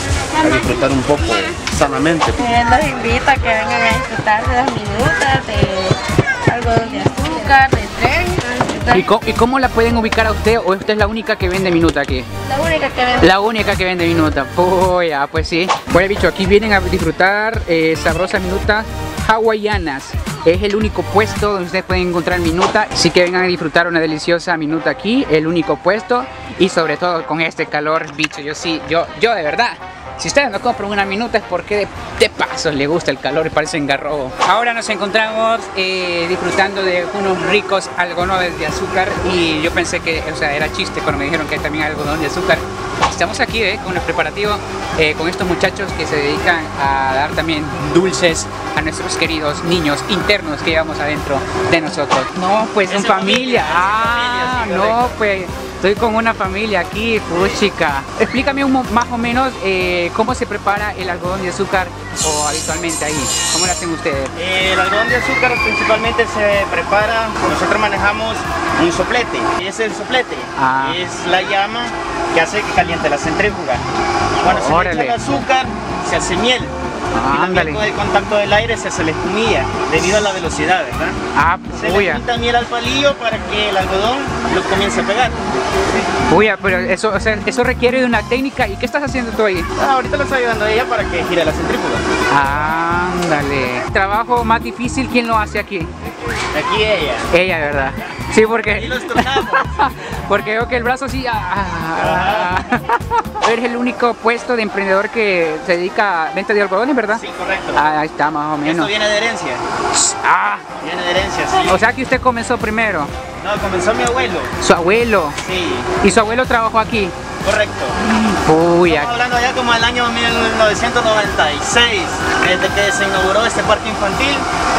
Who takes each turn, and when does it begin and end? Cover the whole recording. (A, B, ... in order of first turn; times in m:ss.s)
0:00.4-0:02.4 A
0:02.4-0:05.9 B
0:06.5-0:09.0 B
0:08.9-0:12.2 C
0:12.6-0:13.1 B
0:13.2-1:04.3 C
0:52.9-0:55.0 D
1:04.4-1:13.8 D
1:10.6-1:11.0 C
1:14.4-1:15.2 C
1:14.4-1:16.7 D
1:17.1-1:17.8 C
1:17.3-1:21.2 D
1:21.3-1:22.2 C
1:21.7-1:25.4 D
1:26.3-1:29.7 C
1:29.8-1:32.0 D
1:32.3-1:35.9 C
1:36.5-1:37.2 D
1:37.3-1:47.2 C
1:38.7-1:39.6 D
1:42.0-1:42.5 D
1:47.1-1:47.8 D
1:47.7-1:48.9 C
1:48.6-1:49.6 D
1:49.9-1:50.6 C
1:50.8-1:51.7 D
1:51.6-1:53.1 C
1:53.4-1:54.5 D
1:54.6-1:55.4 C
1:55.4-1:55.9 D
1:56.0-1:57.1 C
1:57.4-1:57.9 D
1:58.1-1:59.2 C
1:58.9-2:04.4 D